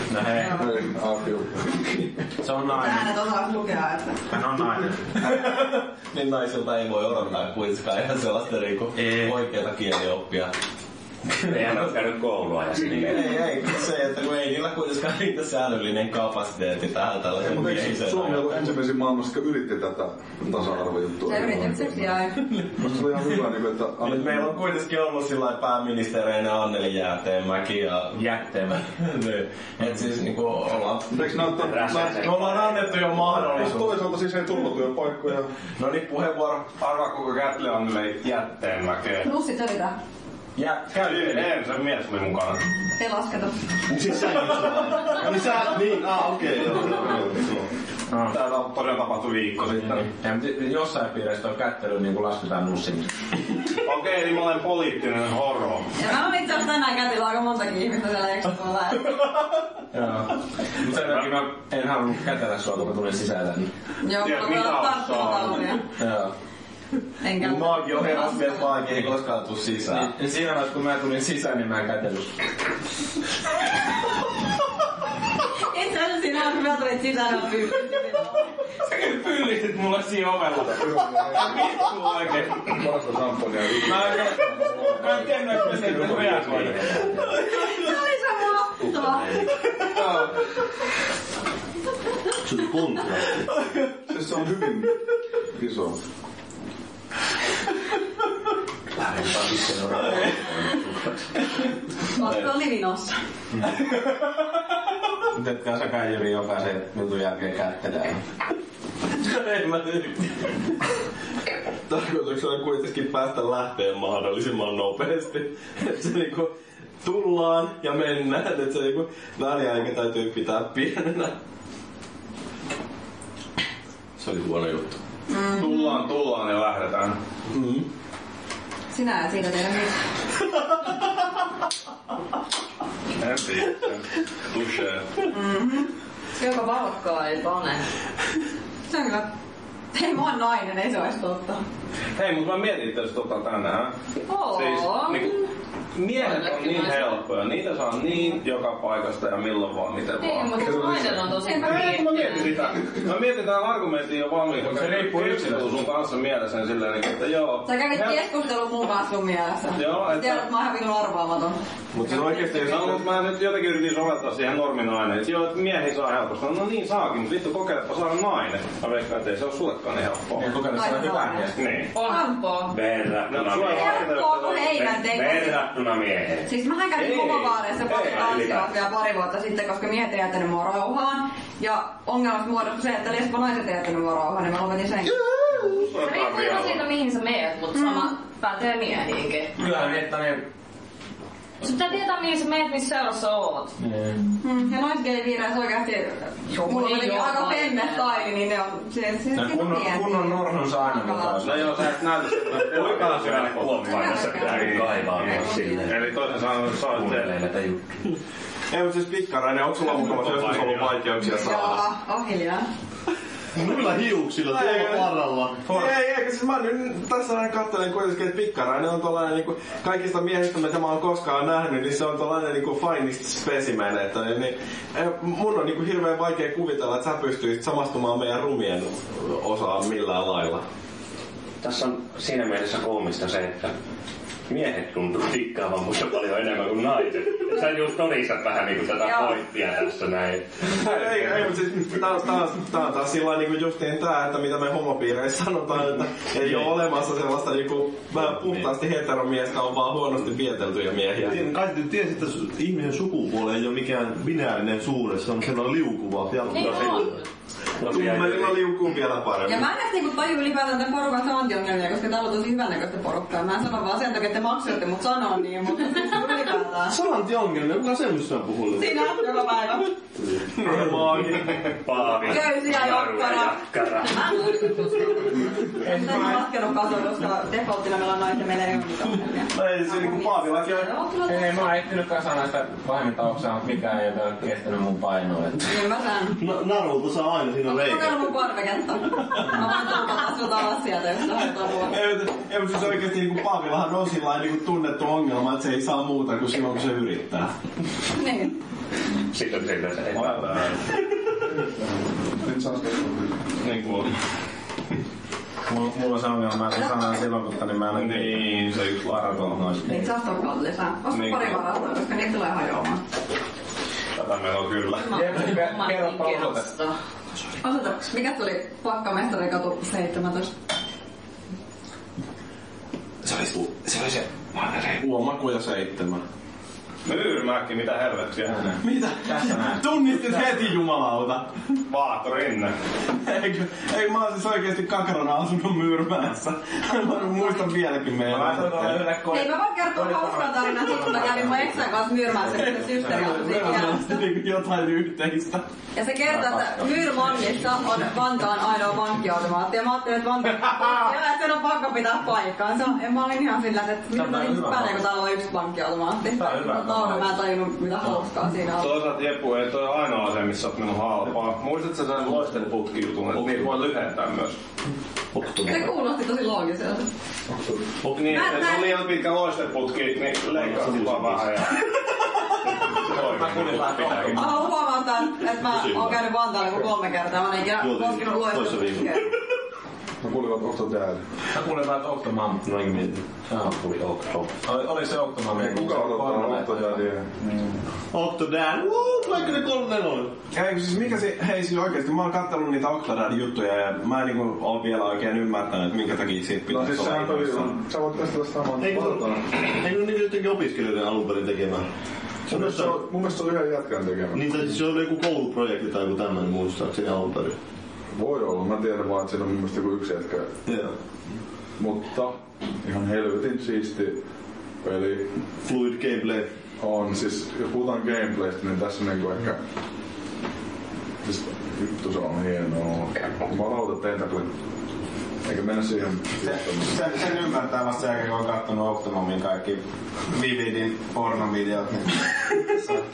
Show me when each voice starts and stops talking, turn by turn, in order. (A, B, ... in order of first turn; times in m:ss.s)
0:00.1-0:00.6 A
0:00.3-0:00.7 B
0:00.5-0:02.1 C
0:02.4-0:03.1 A
0:02.7-0:04.2 B
0:04.3-0:05.1 A
0:05.2-0:10.5 D
0:11.4-0:13.4 E
0:11.5-0:11.9 D
0:12.8-0:18.7 D
0:17.4-0:22.1 C
0:21.2-0:22.4 B
0:22.4-0:23.3 D
0:22.8-0:24.6 C
0:24.0-0:31.5 D
0:28.1-0:28.8 A
0:31.1-0:32.3 C
0:31.5-0:33.6 E
0:32.0-0:34.0 D
0:33.4-0:35.5 C
0:35.8-0:36.7 D
0:36.8-0:39.3 F
0:39.2-0:40.0 B
0:40.6-0:41.5 A
0:40.9-0:42.6 F
0:43.0-0:43.7 B
0:43.9-0:47.7 G
0:48.3-0:50.1 F
0:49.7-0:53.1 A
0:53.8-0:55.9 F
0:56.0-0:59.3 B
0:59.9-1:03.7 A
1:00.9-1:01.4 F
1:04.0-1:05.8 B
1:04.2-1:05.8 F
1:06.0-1:06.3 A
1:07.2-1:08.9 B
1:07.4-1:10.1 D
1:09.8-1:12.3 A
1:15.6-1:18.5 B
1:18.8-1:20.9 A
1:20.6-1:26.8 C
1:21.5-1:22.4 A
1:23.8-1:27.1 A
1:26.5-1:27.4 E
1:27.5-1:29.4 B
1:28.8-1:29.5 E
1:32.4-1:33.5 G
1:34.1-1:34.9 C
1:35.5-1:36.0 C
1:39.0-1:41.2 E
1:42.1-1:43.2 B
1:43.8-1:44.1 D
1:45.3-1:48.2 A
1:49.2-1:50.5 D
1:51.9-1:56.5 D
1:57.0-2:01.3 D
2:04.2-2:05.0 D
2:05.3-2:06.0 B
2:05.5-2:07.2 F
2:07.5-2:07.9 D
2:08.9-2:09.9 B
2:13.2-2:15.2 F
2:15.3-2:15.9 B
2:16.4-2:17.8 H
2:18.9-2:19.3 B
2:19.9-2:21.6 B
2:22.2-2:24.0 F
2:24.2-2:25.5 H
2:24.5-2:25.3 F
2:25.9-2:30.7 F
2:26.1-2:27.2 H
2:30.2-2:32.7 H
2:30.5-2:31.3 C
2:31.4-2:31.8 B
2:31.4-2:38.2 F
2:34.6-2:35.8 A
2:37.6-2:42.9 B
2:39.7-2:40.4 F
2:41.9-2:43.0 D
2:42.1-2:50.5 F
2:50.4-2:51.6 A
2:50.6-2:52.4 B
2:51.5-2:51.9 F
2:51.9-2:52.7 H
2:52.7-2:56.5 E
2:53.3-2:54.8 F
2:53.6-2:55.6 B
2:56.5-3:05.3 B
2:57.0-2:58.6 F
2:58.0-2:58.7 E
3:05.3-3:06.8 F
3:05.7-3:09.5 H
3:07.8-3:08.1 B
3:09.6-3:10.4 A
3:11.6-3:13.7 H
3:13.8-3:14.2 A
3:14.4-3:21.7 B
3:16.5-3:18.1 H
3:19.3-3:21.9 A
3:21.4-3:27.3 F
3:22.5-3:26.2 E
3:23.8-3:26.0 B
3:26.7-3:27.9 E
3:28.7-3:31.8 D
3:29.8-3:31.0 F
3:31.3-3:32.7 B
3:33.5-3:35.9 G
3:34.5-3:35.1 D
3:35.6-3:50.6 D
3:51.6-3:53.7 E
3:54.5-4:01.5 E
3:59.0-3:59.4 B
4:00.7-4:11.4 D
4:06.4-4:06.7 G
4:11.2-4:17.1 G
4:16.5-4:17.3 H
4:16.5-4:17.1 E
4:17.8-4:18.7 E
4:17.8-4:19.6 G
4:17.9-4:19.4 D
4:19.4-4:27.0 B
4:26.9-4:29.2 G
4:28.7-4:29.9 B
4:30.6-4:31.5 D
4:31.2-4:34.7 E
4:32.2-4:40.9 B
4:35.8-4:36.4 A
4:39.5-4:40.9 D
4:40.4-4:41.6 H
4:41.2-4:45.7 A
4:45.7-4:46.4 B
4:46.4-4:48.3 G
4:47.6-4:52.0 B
4:51.8-4:57.5 D
4:58.1-4:58.5 B
4:59.3-5:00.7 E
5:00.2-5:00.7 F
5:01.6-5:03.4 C
5:03.6-5:04.1 F
5:05.6-5:10.1 A
5:07.9-5:09.7 F
5:09.8-5:13.0 B
5:11.1-5:11.6 F
5:14.2-5:15.4 F
5:14.9-5:17.0 H
5:15.1-5:16.7 A
5:17.6-5:20.5 B
5:23.2-5:26.2 D
5:27.0-5:28.7 F
5:28.5-5:30.4 A
5:28.8-5:31.5 D
5:31.9-5:32.8 F
5:33.1-5:39.2 D
5:38.2-5:41.8 A
5:39.2-5:44.2 B
5:42.5-5:45.6 D
5:45.9-5:59.0 B
5:46.3-5:46.9 A
5:54.1-5:55.1 A
5:56.4-5:57.4 A
5:58.8-6:04.6 F
6:05.3-6:05.9 G
6:05.6-6:07.1 B
6:07.5-6:07.8 C
6:08.0-6:08.5 G
6:08.1-6:11.8 F
6:08.3-6:09.0 B
6:10.5-6:11.6 G
6:12.9-6:14.4 F
6:13.0-6:14.7 A
6:14.3-6:19.3 B
6:15.6-6:16.2 G
6:17.8-6:19.2 G
6:20.2-6:21.2 C
6:21.5-6:22.7 A
6:22.7-6:24.5 E
6:24.6-6:27.0 A
6:25.6-6:27.8 C
6:28.1-6:30.3 G
6:30.5-6:37.7 D
6:36.7-6:39.5 C
6:38.8-6:41.9 G
6:42.5-6:43.0 G
6:42.5-6:44.5 C
6:44.3-6:47.6 G
6:48.1-6:50.5 C
6:50.6-6:50.9 G
6:51.8-6:54.2 C
6:54.8-6:55.4 C
6:55.6-6:56.5 G
6:56.8-6:59.6 C
7:01.2-7:04.5 C
7:05.4-7:07.0 C
7:06.4-7:13.0 A